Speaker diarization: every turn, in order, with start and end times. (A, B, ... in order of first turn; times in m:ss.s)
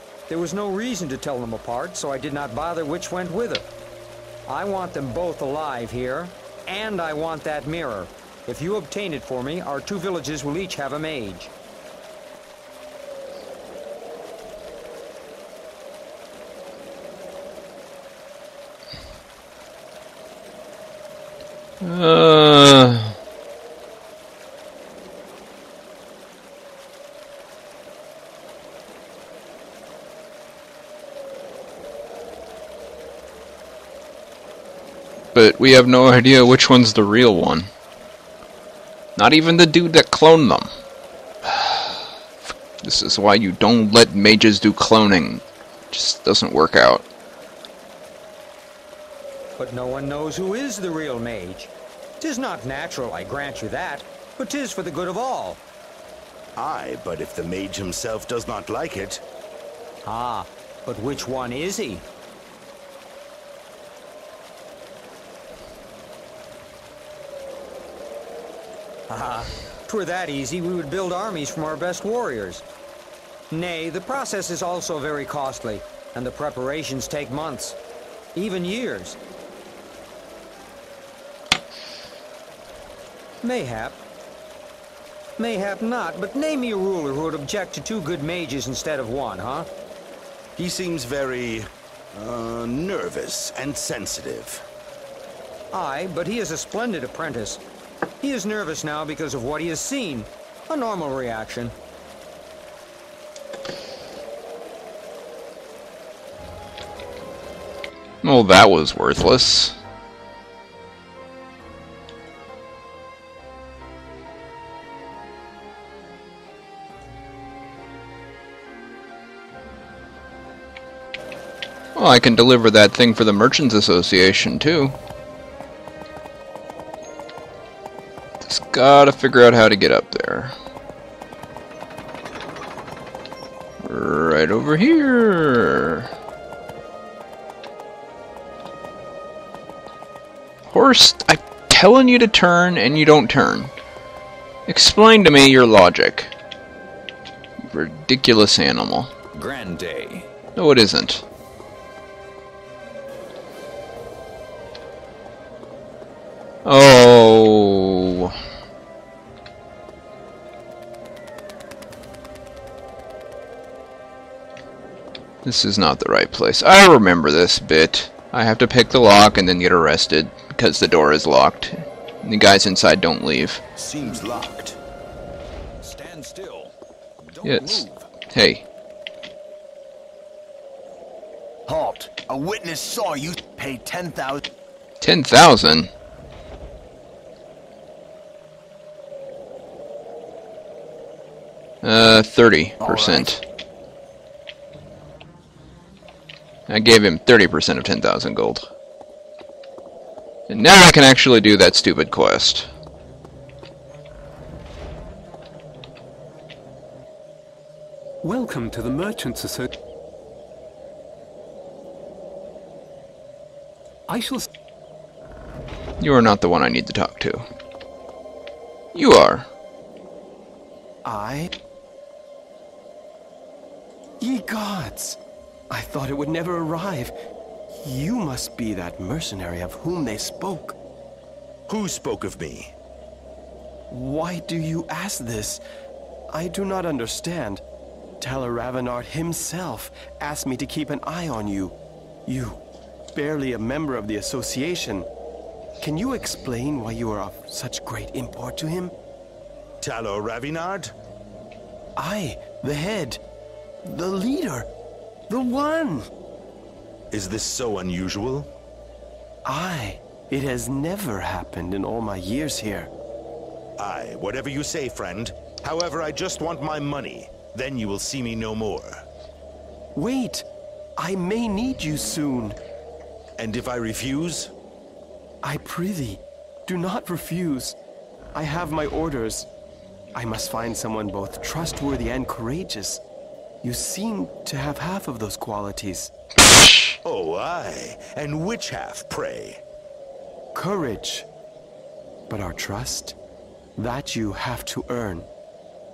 0:00.3-0:03.7 A
0:04.5-0:11.5 A
0:21.8-0:23.2 B
0:35.3-0:37.7 B
0:39.2-0:40.7 B
0:41.4-0:42.1 B
0:42.8-0:47.1 B
0:49.6-0:55.6 A
0:56.6-0:59.2 C
1:00.1-1:02.1 A
1:09.1-1:12.6 A
1:13.5-1:17.8 A
1:18.4-1:19.2 A
1:23.4-1:24.0 A
1:25.4-1:29.7 A
1:30.6-1:34.6 C
1:35.7-1:37.6 A
1:38.2-1:41.7 A
1:48.2-1:49.8 B
2:02.0-2:05.0 B
2:08.4-2:10.5 B
2:13.8-2:16.1 B
2:20.7-2:23.7 B
2:24.7-2:26.3 B
2:27.7-2:29.1 B
2:29.4-2:30.2 D
2:30.6-2:31.2 B
2:36.6-2:38.3 B
2:45.4-2:53.6 B
2:53.8-2:54.7 C
2:55.8-2:56.7 D
2:57.4-2:58.0 D
2:57.4-2:58.6 B
3:01.8-3:02.4 E
3:03.2-3:04.3 E
3:05.0-3:05.9 B
3:11.8-3:13.4 B
3:12.8-3:13.2 E
3:16.7-3:18.7 B
3:20.5-3:22.7 B
3:28.2-3:29.7 F
3:34.1-3:34.5 F
3:36.0-3:37.4 B
3:38.9-3:39.5 B
3:41.0-3:41.5 G
3:44.2-3:45.2 G
3:45.7-3:47.1 G
3:47.8-3:50.8 G
3:51.7-3:52.7 C
3:53.9-3:55.6 G
3:56.3-3:57.6 G
3:58.2-4:01.8 G
4:02.3-4:02.6 G
4:03.2-4:05.1 G
4:05.8-4:08.9 G
4:09.8-4:10.9 C
4:12.0-4:13.2 G
4:13.8-4:14.7 G
4:15.3-4:16.1 G
4:17.1-4:18.5 C
4:19.4-4:22.9 G
4:23.8-4:29.0 C
4:30.0-4:30.4 G
4:31.0-4:32.6 G
4:33.4-4:34.5 C
4:35.4-4:37.8 G
4:38.4-4:39.5 G
4:40.2-4:43.0 G
4:43.6-4:46.1 G
4:47.0-4:49.6 C
4:50.6-4:51.3 G
4:52.3-4:53.2 G
4:53.8-4:55.3 G